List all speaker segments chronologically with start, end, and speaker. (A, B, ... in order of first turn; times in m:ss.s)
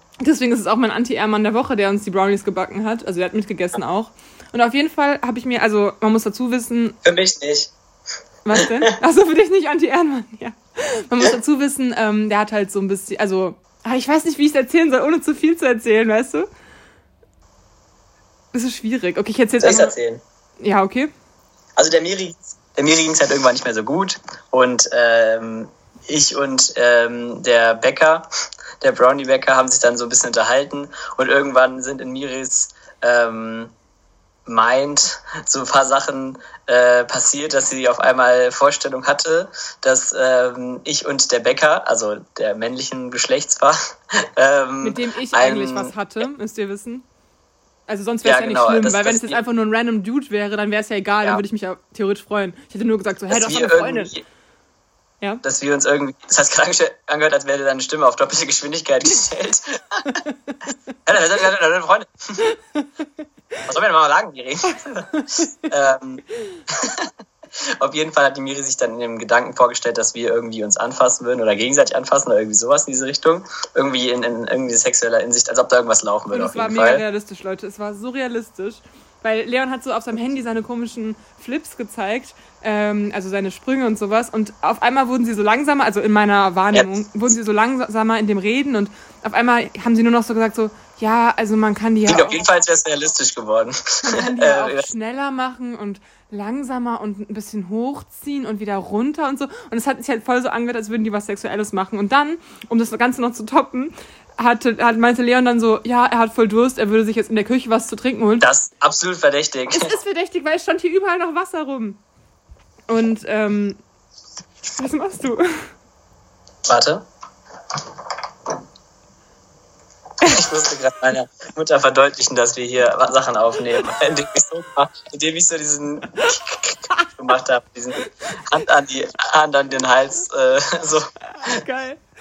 0:00.2-0:07.0 A
0:07.0-0:07.7 B
0:08.4-0:16.5 A
0:08.6-0:08.9 B
0:18.5-0:20.0 A
0:19.6-0:20.2 B
0:20.6-0:21.1 A
0:21.8-0:28.3 B
0:28.8-0:33.7 B
0:34.5-0:45.9 B
0:44.8-0:47.0 A
0:47.9-0:54.1 A
0:48.2-0:49.4 B
0:53.3-0:54.2 B
0:55.4-1:00.2 B
1:00.1-1:00.6 A
1:01.1-1:02.4 B
1:02.4-1:03.0 A
1:03.7-1:07.1 B
1:05.1-1:05.7 A
1:07.8-1:17.0 B
1:16.3-1:32.4 A
1:32.1-1:34.9 B
1:34.0-1:48.5 A
1:48.4-1:50.0 B
1:49.7-1:52.0 A
1:52.9-1:53.8 A
1:54.8-1:55.4 A
1:56.7-1:57.1 B
2:00.2-2:11.6 B
2:11.4-2:12.0 A